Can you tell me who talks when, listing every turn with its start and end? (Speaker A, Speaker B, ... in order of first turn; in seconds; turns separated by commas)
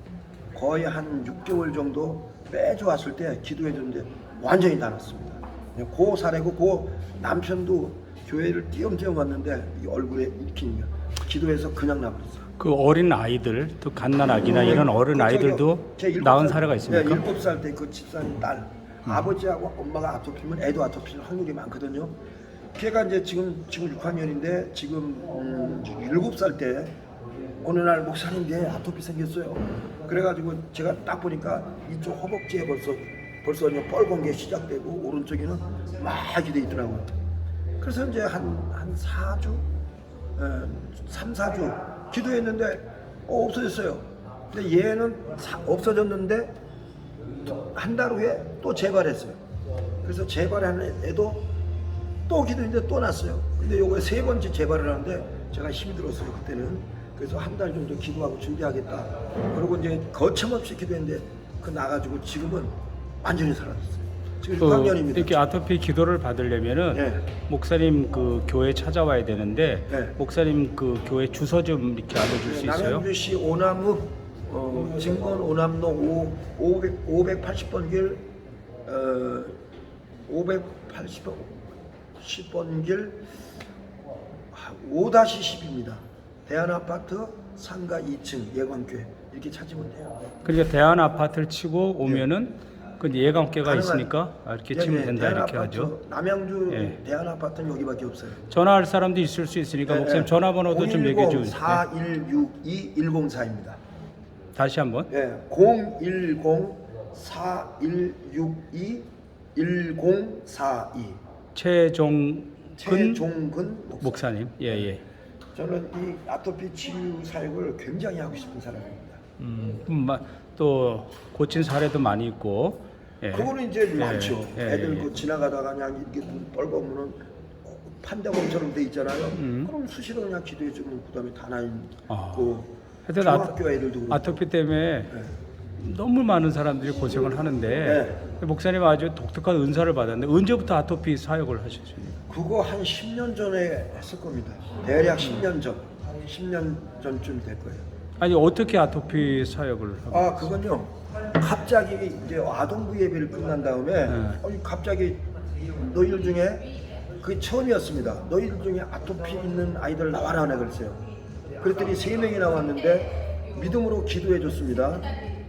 Speaker A: 0.5-12.4, Speaker B: 12.6-17.3, Speaker A: 14.4-22.1, Speaker A: 22.7-26.9, Speaker A: 27.6-37.1, Speaker A: 37.8-39.6, Speaker A: 40.4-46.5, Speaker A: 47.4-49.4, Speaker A: 50.0-51.5, Speaker A: 52.3-65.4, Speaker B: 64.6-73.0, Speaker A: 66.9-67.2, Speaker A: 69.9-70.1, Speaker A: 72.4-78.3, Speaker A: 78.8-79.6, Speaker A: 80.3-83.2, Speaker A: 84.5-90.2, Speaker B: 90.4-95.9, Speaker A: 93.6-94.1, Speaker A: 94.7-98.4, Speaker B: 96.7-97.0, Speaker B: 98.5-101.8, Speaker A: 99.9-103.8, Speaker B: 104.5-105.1, Speaker A: 105.1-111.2, Speaker B: 111.5-113.2, Speaker A: 112.8-114.9, Speaker B: 114.0-115.0, Speaker A: 115.5-119.2, Speaker B: 119.4-125.1, Speaker A: 123.3-134.4, Speaker B: 129.3-129.7, Speaker B: 132.1-132.5, Speaker B: 133.1-133.6, Speaker B: 134.1-135.1, Speaker B: 135.8-142.2, Speaker A: 137.8-138.2, Speaker A: 142.3-147.8, Speaker B: 145.2-145.5, Speaker B: 148.2-150.5, Speaker A: 150.1-155.3, Speaker B: 154.1-154.4, Speaker A: 155.8-156.7, Speaker A: 157.2-161.0, Speaker A: 161.6-165.1